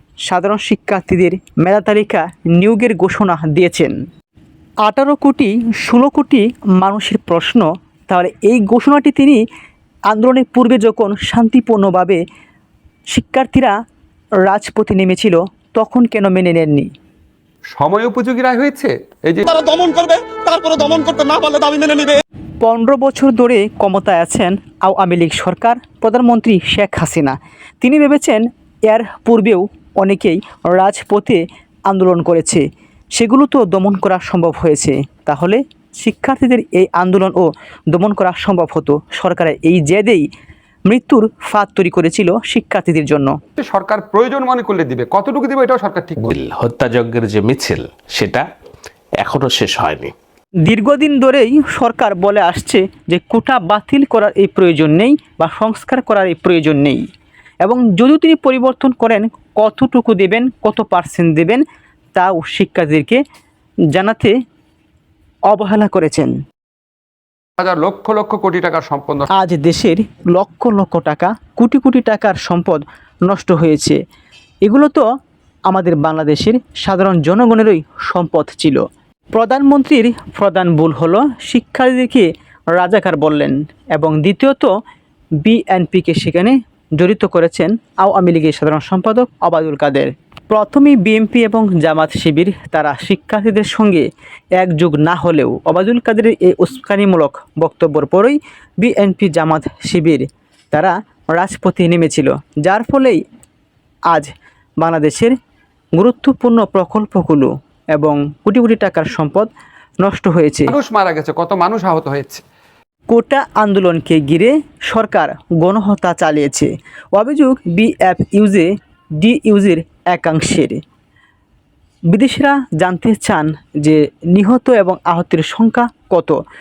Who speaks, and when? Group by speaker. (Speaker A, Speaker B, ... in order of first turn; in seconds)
Speaker A: 0.2-3.9, 4.8-9.4, 10.1-12.2, 13.1-13.7, 14.4-16.9, 22.6-32.6, 33.1-40.2, 40.9-43.3, 50.6-57.0, 57.6-61.6, 62.1-63.2, 63.9-64.3, 65.5-66.3, 69.3-74.0, 74.6-75.0, 75.7-78.8, 79.3-84.7, 85.4-94.1, 94.6-103.2, 104.8-105.3, 106.0-109.5, 110.0-110.7, 113.1-118.7, 119.2-120.8, 122.1-126.3
Speaker B: 17.8-19.5, 43.6-46.3, 67.6-69.3, 110.7-112.4
Speaker C: 19.4-22.2
Speaker D: 46.2-48.4, 49.2-50.1